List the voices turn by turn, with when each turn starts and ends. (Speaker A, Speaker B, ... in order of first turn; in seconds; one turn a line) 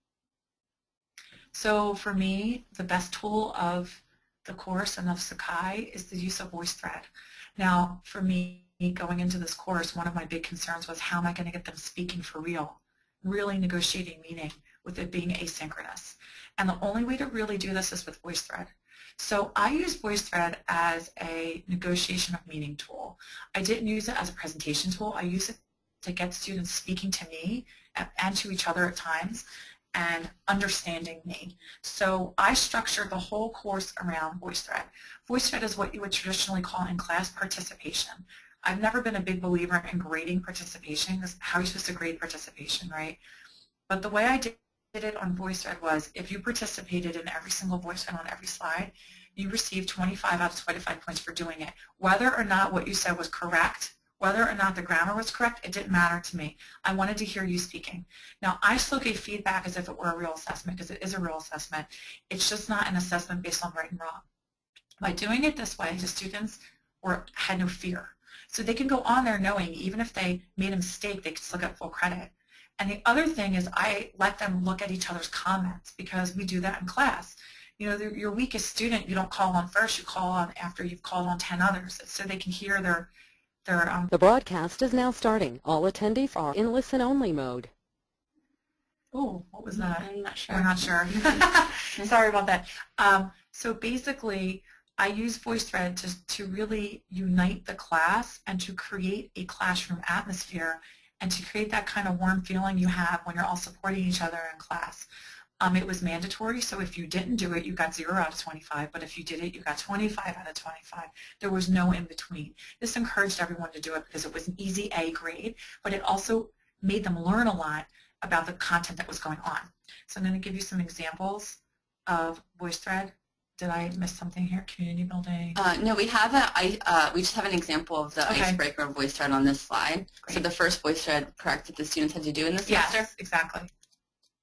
Speaker A: 1.5-43.2
Speaker A: 43.9-64.3
Speaker A: 65.0-83.1
Speaker A: 83.6-84.1
Speaker B: 84.1-87.7
Speaker A: 89.1-105.1
Speaker C: 89.7-91.4
Speaker A: 105.6-125.6
Speaker C: 125.5-133.1
Speaker A: 128.2-128.6
Speaker A: 132.7-133.7